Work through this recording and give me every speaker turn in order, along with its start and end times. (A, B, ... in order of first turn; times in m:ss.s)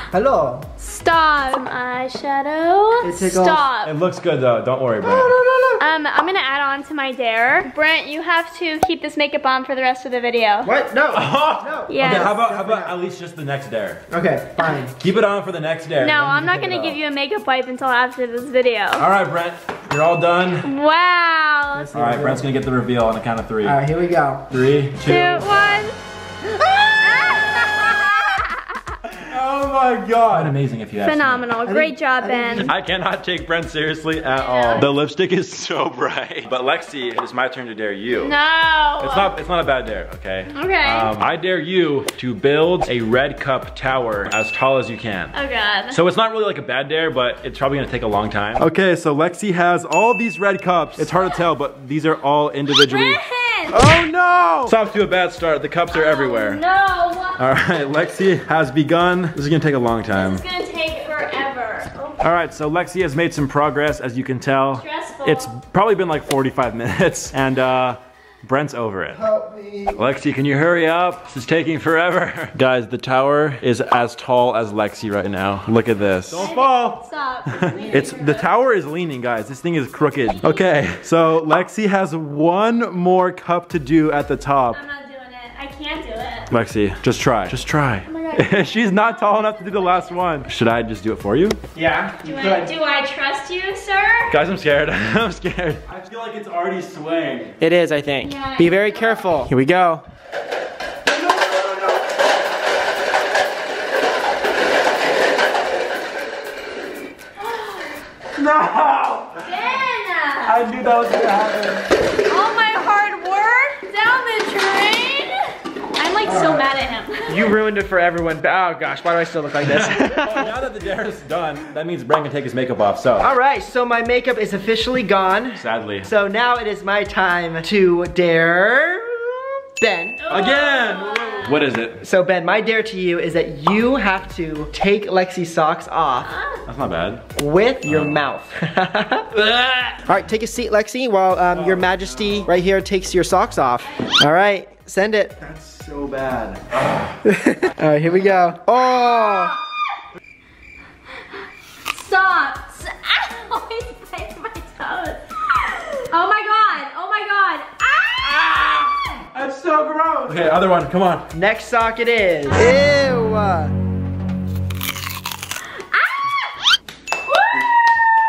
0:00.1-0:00.7 A
0:00.8-0:03.9 B
0:03.0-0:03.6 A
0:03.8-0:05.4 C
0:05.0-0:05.8 A
0:05.8-0:10.7 B
0:10.6-0:12.9 A
0:11.1-0:14.0 C
0:11.9-0:12.3 B
0:14.1-0:15.0 A
0:15.0-0:17.0 C
0:16.0-0:19.1 B
0:19.0-0:20.7 C
0:20.6-0:21.9 B
0:21.8-0:22.5 A
0:21.9-0:23.8 C
0:23.6-0:24.4 A
0:24.5-0:25.8 C
0:25.0-0:26.0 B
0:26.9-0:28.6 B
0:29.1-0:31.5 C
0:31.0-0:32.7 B
0:31.6-0:32.7 A
0:32.6-0:38.4 C
0:34.3-0:34.9 B
0:38.2-0:39.3 B
0:39.0-0:45.3 C
0:40.5-0:41.1 B
0:45.3-0:46.0 B
0:45.9-0:53.2 C
0:52.9-0:53.8 B
0:53.7-0:54.7 A
0:54.6-0:56.6 C
0:55.9-0:58.0 B
0:57.4-1:00.4 C
1:00.1-1:02.2 B
1:02.2-1:09.2 C
1:04.7-1:05.5 B
1:09.1-1:10.0 A
1:09.9-1:24.8 C
1:16.3-1:18.5 B
1:19.9-1:20.6 B
1:24.7-1:26.5 B
1:26.5-1:31.6 C
1:28.1-1:30.1 B
1:31.8-1:32.7 A
1:32.2-1:34.3 B
1:34.3-1:37.6 C
1:37.6-1:40.0 A
1:38.2-1:39.5 B
1:41.2-1:42.0 C
1:47.4-1:48.0 B
1:48.4-1:49.6 C
1:49.4-1:50.6 B
1:50.4-1:51.8 C
1:52.3-1:57.5 B
1:56.2-1:56.7 A
1:57.3-2:00.5 A
1:59.6-2:03.3 C
2:03.2-2:10.2 A
2:05.6-2:06.1 C
2:10.2-2:11.7 B
2:10.3-2:12.0 C
2:12.0-2:16.3 A
2:16.2-2:16.6 B
2:16.7-2:17.2 C
2:17.4-2:19.3 A
2:17.8-2:18.2 C
2:19.3-2:20.1 C
2:20.0-2:25.4 A
2:21.5-2:22.5 C
2:23.8-2:24.1 B
2:25.4-2:27.2 C
2:27.2-2:29.5 A
2:28.8-2:29.8 B
2:31.9-2:39.2 B
2:38.4-2:38.8 C
2:39.3-2:41.3 C
2:41.3-2:43.7 A
2:42.5-2:43.0 B
2:45.9-2:46.4 B
2:47.3-2:47.7 B